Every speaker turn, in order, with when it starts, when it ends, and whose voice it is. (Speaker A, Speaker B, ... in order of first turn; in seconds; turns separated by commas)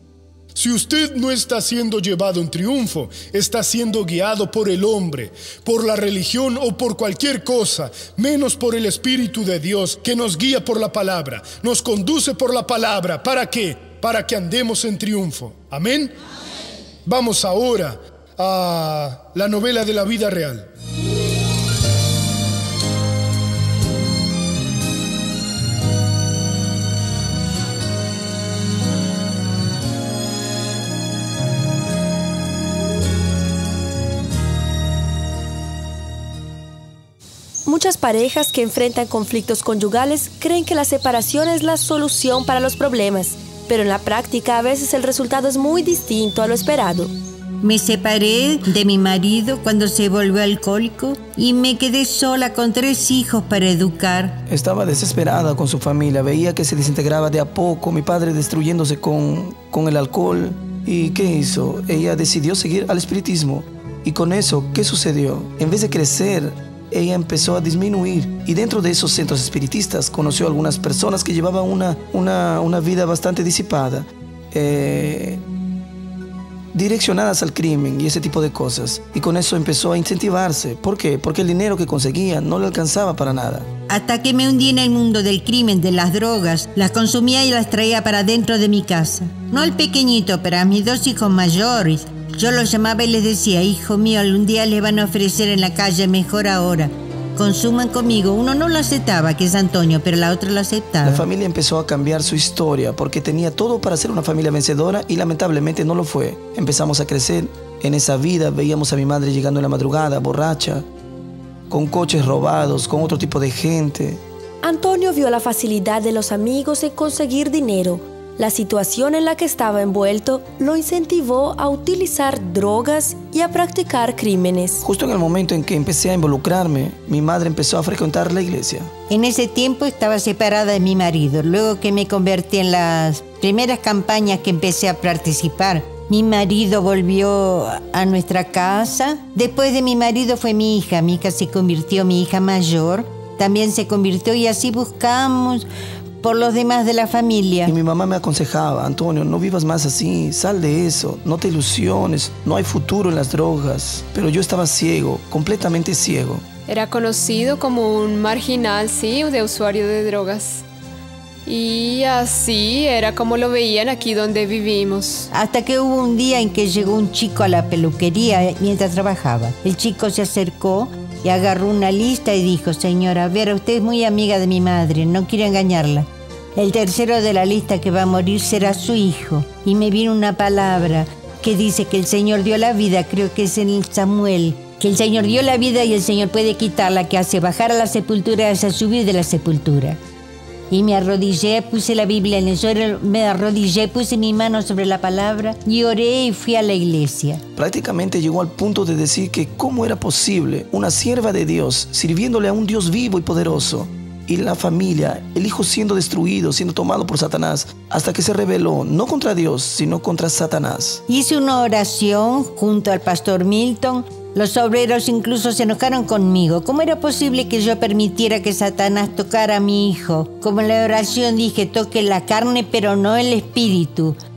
Speaker A: 0.5-16.1, Speaker A: 17.0-20.7, Speaker B: 37.6-47.1, Speaker C: 47.6-54.4, Speaker D: 54.5-75.4, Speaker D: 76.7-83.7, Speaker C: 83.9-101.2, Speaker D: 101.0-110.8, Speaker D: 111.7-114.2, Speaker B: 114.6-124.8, Speaker D: 124.8-128.9, Speaker C: 129.1-145.7, Speaker C: 146.2-147.7, Speaker D: 147.7-156.4, Speaker E: 156.7-160.6, Speaker E: 161.4-165.3, Speaker C: 165.3-190.0, Speaker C: 190.7-197.4, Speaker D: 197.6-211.0, Speaker C: 211.1-224.2